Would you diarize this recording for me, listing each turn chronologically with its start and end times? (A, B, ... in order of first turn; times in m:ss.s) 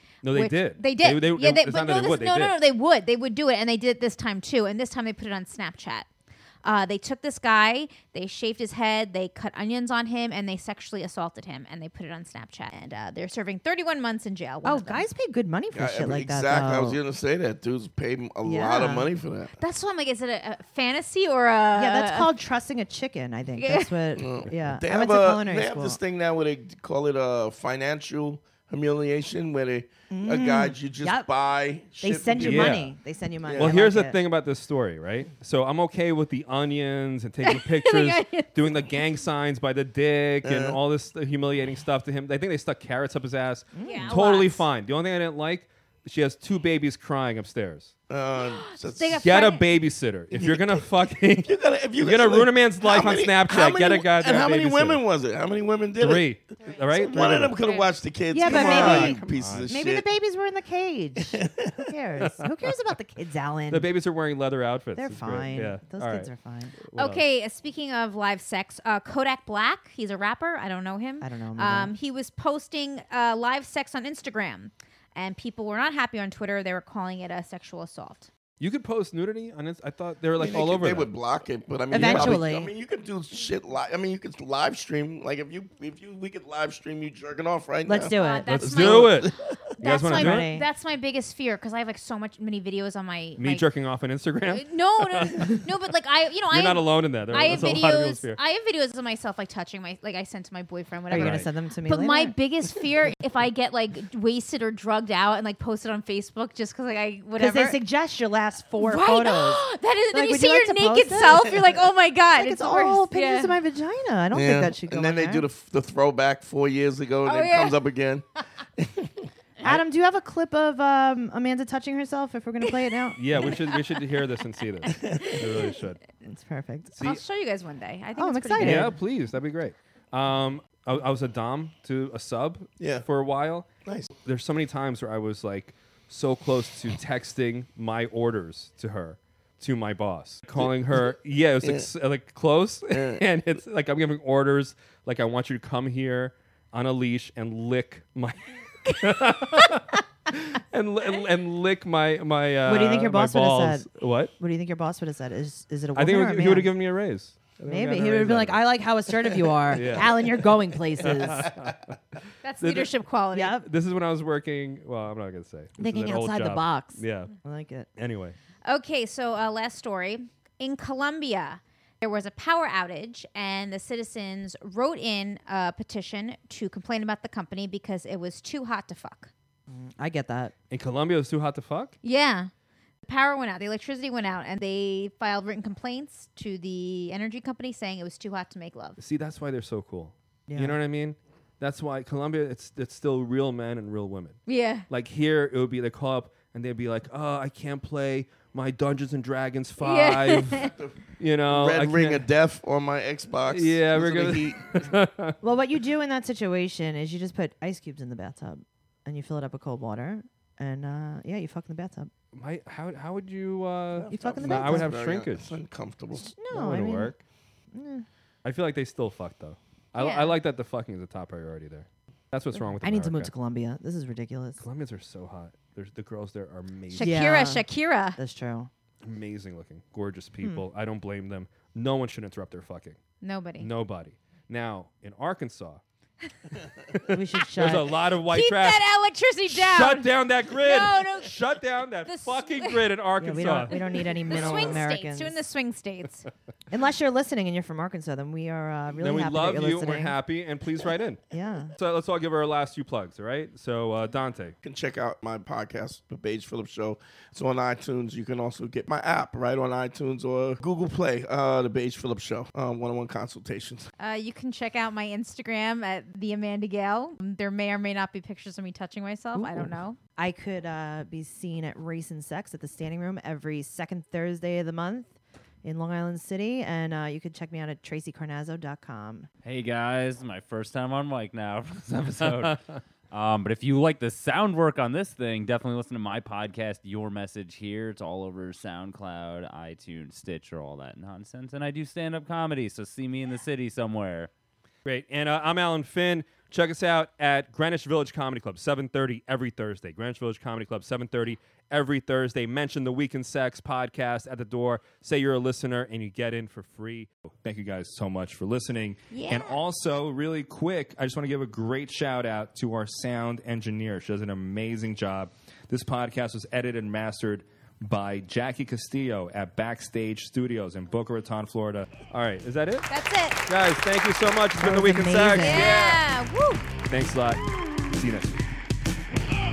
0:00.2-0:02.6 A
0:00.3-0:06.1 B
0:06.6-0:15.1 B
0:14.6-0:17.0 C
0:15.7-0:19.6 D
0:18.4-0:19.1 C
0:19.6-0:22.3 B
0:21.8-0:26.0 C
0:23.6-0:23.9 B
0:24.2-0:32.9 D
0:30.1-0:31.3 C
0:32.0-0:34.2 C
0:32.4-0:32.9 A
0:33.4-0:33.8 D
0:33.6-0:47.9 A
0:37.4-0:39.0 B
0:40.4-0:40.8 D
0:43.8-0:44.2 C
0:43.8-0:44.7 B
0:48.1-0:49.4 D
0:48.4-0:49.7 B
0:49.2-0:55.0 A
0:50.3-0:56.3 D
0:56.0-0:57.6 A
0:56.6-0:57.9 B
0:56.9-1:00.0 D
0:58.3-1:03.9 C
0:58.5-0:59.7 A
0:58.5-0:58.8 B
1:01.2-1:01.9 D
1:03.7-1:06.3 A
1:05.0-1:06.7 C
1:06.9-1:07.2 A
1:07.0-1:18.3 B
1:11.2-1:12.0 C
1:18.6-1:21.1 A
1:20.4-1:28.2 D
1:21.9-1:22.7 C
1:22.0-1:22.4 A
1:27.9-1:29.0 C
1:28.1-1:33.7 B
1:28.5-1:29.3 A
1:28.9-1:29.5 D
1:29.8-1:30.5 A
1:30.1-1:30.7 C
1:33.4-1:35.7 A
1:34.5-1:47.8 B
1:36.5-1:38.4 A
1:41.1-1:42.4 C
1:41.1-1:41.5 A
1:47.4-1:51.6 C
1:48.8-1:53.6 B
1:52.4-1:55.5 C
1:54.3-1:58.2 D
1:57.3-1:57.8 B
1:58.8-1:59.3 D
1:59.6-2:03.2 C
2:03.2-2:06.0 A
2:04.8-2:05.2 B
2:04.9-2:05.5 D
2:06.2-2:06.9 C
2:06.9-2:07.2 A
2:07.0-2:09.0 B
2:08.2-2:09.0 C
2:08.6-2:13.7 A
2:12.8-2:13.0 D
2:14.2-2:34.3 A
2:20.6-2:21.9 D
2:22.9-2:23.2 D
2:32.6-2:33.9 C
2:34.4-2:36.7 C
2:36.0-2:38.6 A
2:37.7-2:41.5 C
2:39.6-2:40.4 A
2:41.0-2:42.0 A
2:42.4-2:43.6 B
2:42.6-2:42.9 A
2:43.3-2:43.7 C
2:43.6-2:47.3 A
2:45.8-2:47.9 C
2:48.0-2:48.4 A
2:48.6-2:59.3 B
2:59.7-3:00.5 C
3:00.7-3:02.0 A
3:02.0-3:02.5 B
3:03.0-3:09.0 B
3:09.0-3:20.6 A
3:10.5-3:10.8 C
3:14.5-3:14.9 B
3:19.8-3:20.7 B
3:20.6-3:24.9 D
3:21.2-3:22.2 A
3:23.5-3:25.4 A
3:25.4-3:32.1 C
3:32.4-3:35.6 A
3:34.0-3:36.3 D
3:34.1-3:34.9 C
3:36.1-3:37.1 C
3:36.5-3:37.2 A
3:37.7-3:38.1 C
3:38.4-3:43.3 A
3:40.0-3:40.4 B
3:42.6-3:44.6 C
3:44.6-3:47.3 A
3:46.9-3:48.2 B
3:47.0-3:48.7 C
3:49.0-3:53.0 A
3:53.2-3:53.7 B
3:53.6-3:55.8 A
3:56.8-3:58.9 A
3:57.1-3:57.9 C
3:58.2-4:01.4 B
3:59.5-4:03.8 A
4:02.1-4:02.8 B
4:03.2-4:05.4 C
4:03.7-4:06.3 B
4:04.3-4:04.7 A
4:06.7-4:10.2 C
4:09.0-4:11.2 A
4:11.3-4:11.7 C
4:11.8-4:14.6 A
4:14.6-4:23.9 D
4:24.0-4:30.0 B
4:29.3-4:39.3 C
4:39.4-4:54.3 E
4:42.2-4:42.6 A
4:54.8-5:22.9 A
5:09.1-5:09.6 B
5:22.9-5:23.4 B
5:23.5-5:26.0 A
5:24.6-5:25.7 C
5:25.4-5:26.7 B
5:26.9-5:28.4 A